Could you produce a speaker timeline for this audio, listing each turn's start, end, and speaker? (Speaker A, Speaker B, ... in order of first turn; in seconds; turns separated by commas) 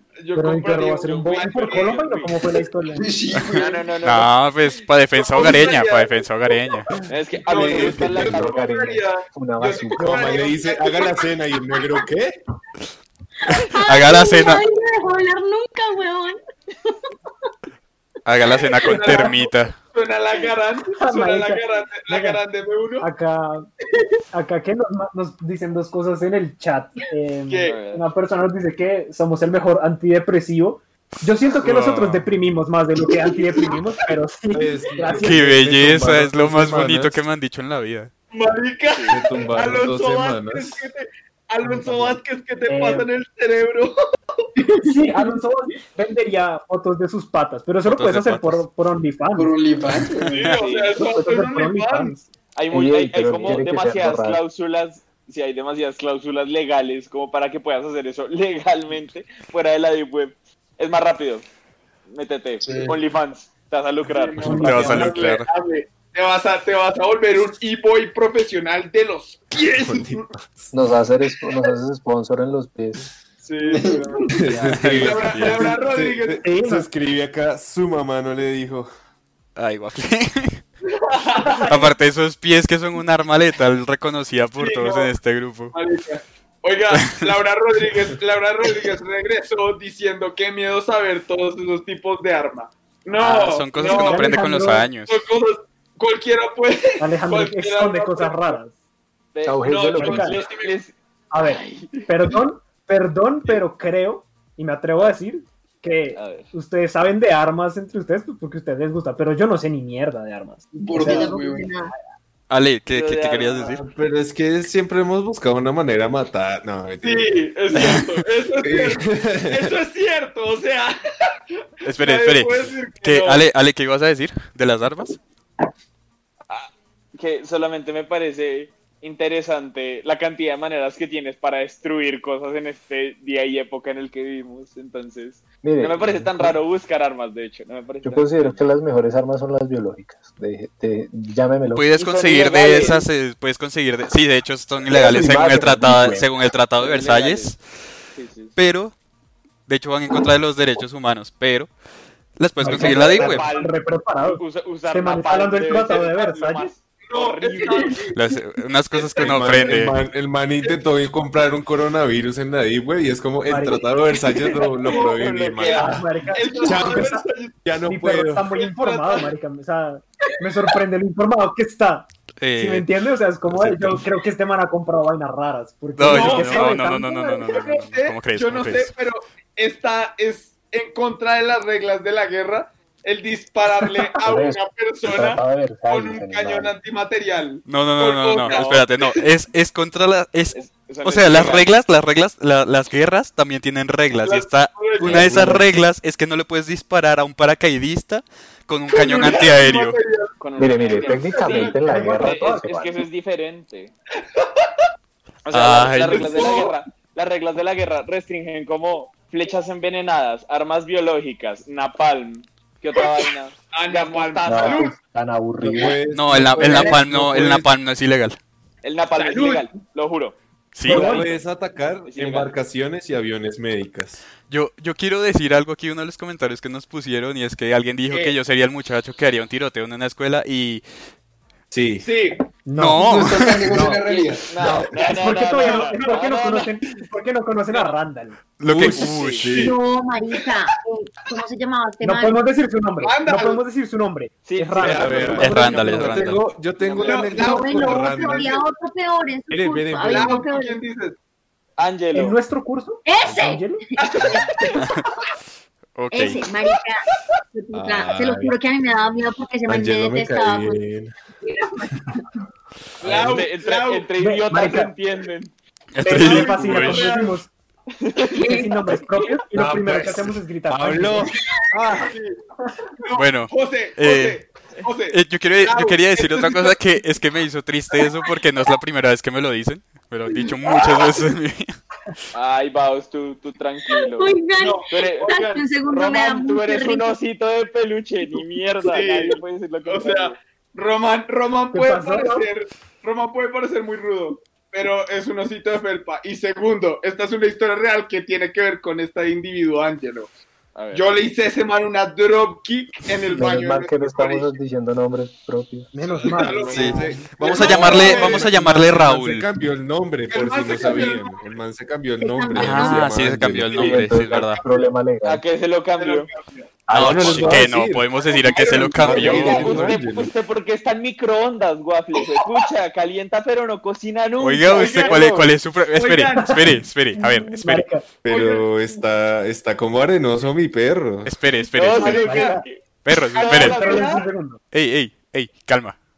Speaker A: 0.2-2.2, Speaker B: 0.3-3.0, Speaker C: 1.7-2.3, Speaker D: 2.9-4.0, Speaker E: 3.4-6.9, Speaker C: 3.5-4.3, Speaker A: 5.2-6.2, Speaker F: 7.0-8.5, Speaker C: 7.1-8.5, Speaker A: 7.5-11.3, Speaker G: 8.2-10.3, Speaker F: 10.0-12.4, Speaker H: 13.4-16.4, Speaker E: 13.5-14.6, Speaker E: 18.2-19.8, Speaker A: 18.6-23.1, Speaker B: 21.0-22.4, Speaker B: 23.0-23.7, Speaker B: 24.3-35.6, Speaker A: 27.5-27.8, Speaker C: 27.6-28.0, Speaker E: 31.6-32.2, Speaker F: 34.5-37.2, Speaker E: 35.2-38.1, Speaker A: 38.3-44.5, Speaker C: 38.9-39.2, Speaker F: 39.1-40.9, Speaker B: 41.6-42.1, Speaker B: 42.7-43.1, Speaker B: 44.8-49.5, Speaker E: 47.9-48.6, Speaker D: 49.4-50.5, Speaker E: 50.2-50.6, Speaker A: 50.3-52.1, Speaker C: 50.5-51.0, Speaker B: 51.0-52.2, Speaker C: 52.6-61.5, Speaker G: 52.7-54.4, Speaker C: 62.1-64.8, Speaker D: 62.6-63.0, Speaker A: 64.1-70.3, Speaker B: 64.4-65.2, Speaker E: 64.5-65.5, Speaker F: 69.8-70.7, Speaker G: 70.7-73.1, Speaker A: 73.4-76.4, Speaker D: 73.7-74.1, Speaker F: 74.3-78.9, Speaker E: 74.5-75.8, Speaker B: 76.4-76.9, Speaker E: 79.6-80.6, Speaker A: 80.9-81.9, Speaker B: 81.4-81.8, Speaker E: 81.6-85.7, Speaker A: 84.6-85.1, Speaker A: 85.7-94.4, Speaker E: 86.9-87.3, Speaker E: 93.2-95.2, Speaker B: 93.8-94.9, Speaker A: 95.1-98.6, Speaker B: 97.0-98.7, Speaker C: 99.3-102.1, Speaker G: 99.5-100.4, Speaker A: 99.6-100.8, Speaker B: 100.0-100.4, Speaker B: 101.3-111.3, Speaker C: 106.1-106.5, Speaker D: 110.8-111.7, Speaker H: 110.9-111.9, Speaker E: 112.5-113.8, Speaker C: 112.9-113.8, Speaker F: 113.8-117.3, Speaker A: 117.0-121.3, Speaker E: 117.7-118.1, Speaker F: 118.6-119.7, Speaker E: 121.8-125.2, Speaker A: 121.9-123.5, Speaker C: 126.5-138.6, Speaker G: 135.6-136.6, Speaker G: 138.0-141.9, Speaker E: 141.7-147.6, Speaker C: 142.0-143.0, Speaker G: 144.9-146.3, Speaker C: 146.8-147.5, Speaker C: 148.1-148.6, Speaker E: 148.6-148.9, Speaker E: 149.7-151.7, Speaker E: 152.4-153.5, Speaker B: 152.6-156.7, Speaker C: 152.6-158.0, Speaker A: 157.1-158.2, Speaker E: 158.1-160.0, Speaker A: 158.9-159.9, Speaker F: 159.2-166.0, Speaker B: 163.5-163.8, Speaker C: 164.3-166.0, Speaker A: 164.8-167.6, Speaker B: 165.7-167.2, Speaker F: 166.6-168.5, Speaker B: 167.9-177.4, Speaker A: 168.5-169.3, Speaker E: 172.4-172.9, Speaker E: 173.5-174.0, Speaker E: 176.0-178.9, Speaker A: 176.0-176.8, Speaker A: 177.4-189.2, Speaker G: 184.2-186.7, Speaker E: 187.7-200.0, Speaker C: 188.4-188.8, Speaker C: 190.5-191.7, Speaker A: 194.2-195.6, Speaker G: 195.1-195.6, Speaker F: 195.1-195.6, Speaker A: 198.9-201.8, Speaker C: 200.4-203.9, Speaker G: 200.6-203.1, Speaker B: 201.8-202.7, Speaker A: 204.3-204.7, Speaker C: 205.4-214.9, Speaker E: 205.5-206.6, Speaker A: 206.1-206.8, Speaker A: 213.7-214.9, Speaker G: 214.4-216.0, Speaker F: 215.6-217.7, Speaker E: 216.1-218.4, Speaker C: 218.8-220.4, Speaker A: 219.1-219.7, Speaker E: 220.8-221.2, Speaker F: 220.8-224.2, Speaker B: 220.9-221.3, Speaker C: 222.0-222.5, Speaker E: 224.5-230.8, Speaker A: 228.1-228.4, Speaker F: 231.7-232.1, Speaker A: 232.0-232.4, Speaker B: 232.7-234.0, Speaker E: 232.7-233.8, Speaker D: 233.0-234.6, Speaker C: 234.0-236.8, Speaker B: 234.6-238.4, Speaker A: 235.5-236.0, Speaker E: 238.6-239.5, Speaker F: 238.6-239.8, Speaker C: 238.9-239.5, Speaker H: 239.5-242.4, Speaker B: 242.0-246.2, Speaker A: 243.0-243.6, Speaker C: 244.5-245.5, Speaker F: 244.8-248.6, Speaker E: 245.2-246.4, Speaker C: 246.8-247.3, Speaker A: 247.0-248.6, Speaker H: 247.4-250.8, Speaker F: 249.5-250.4, Speaker A: 250.0-251.2, Speaker C: 251.8-252.4, Speaker B: 252.1-253.8, Speaker H: 253.0-254.5, Speaker A: 254.0-254.9, Speaker E: 254.8-255.0, Speaker E: 255.9-256.4, Speaker H: 256.1-260.8, Speaker F: 257.7-258.5, Speaker F: 259.7-261.1, Speaker H: 261.4-262.0, Speaker A: 263.0-264.1, Speaker F: 263.0-263.4, Speaker C: 263.3-265.5, Speaker B: 264.2-264.9, Speaker E: 265.9-267.1, Speaker B: 266.0-267.5, Speaker A: 266.1-267.4, Speaker C: 268.0-268.4, Speaker H: 268.3-268.9, Speaker B: 268.4-271.3, Speaker F: 269.5-272.1, Speaker A: 271.9-272.4, Speaker A: 273.0-276.8, Speaker E: 273.1-274.4, Speaker E: 275.1-281.7, Speaker C: 282.3-284.4, Speaker H: 283.9-287.1, Speaker A: 284.6-285.6, Speaker C: 284.9-285.3, Speaker C: 285.9-290.4, Speaker A: 288.9-300.3, Speaker B: 291.7-292.5, Speaker C: 300.8-301.1, Speaker A: 300.9-304.5, Speaker G: 303.3-305.9, Speaker B: 305.9-306.9, Speaker A: 306.0-308.6, Speaker F: 306.5-314.2, Speaker E: 306.7-309.5, Speaker A: 310.3-311.5, Speaker H: 312.2-313.1, Speaker E: 312.6-314.6, Speaker G: 313.7-315.4, Speaker A: 314.3-314.9, Speaker C: 315.2-316.3, Speaker A: 316.0-316.8, Speaker G: 316.9-317.6, Speaker F: 316.9-320.3, Speaker E: 316.9-320.0, Speaker A: 318.2-319.8, Speaker C: 319.0-325.3, Speaker E: 324.4-327.9, Speaker A: 324.7-326.8, Speaker B: 326.4-328.0, Speaker F: 328.2-331.4, Speaker A: 328.2-328.7, Speaker E: 331.2-332.4, Speaker C: 331.7-332.8, Speaker A: 331.9-332.6, Speaker B: 332.1-332.6, Speaker E: 333.0-333.9, Speaker C: 333.4-334.2, Speaker A: 333.4-334.2, Speaker B: 333.6-334.6, Speaker E: 334.7-336.0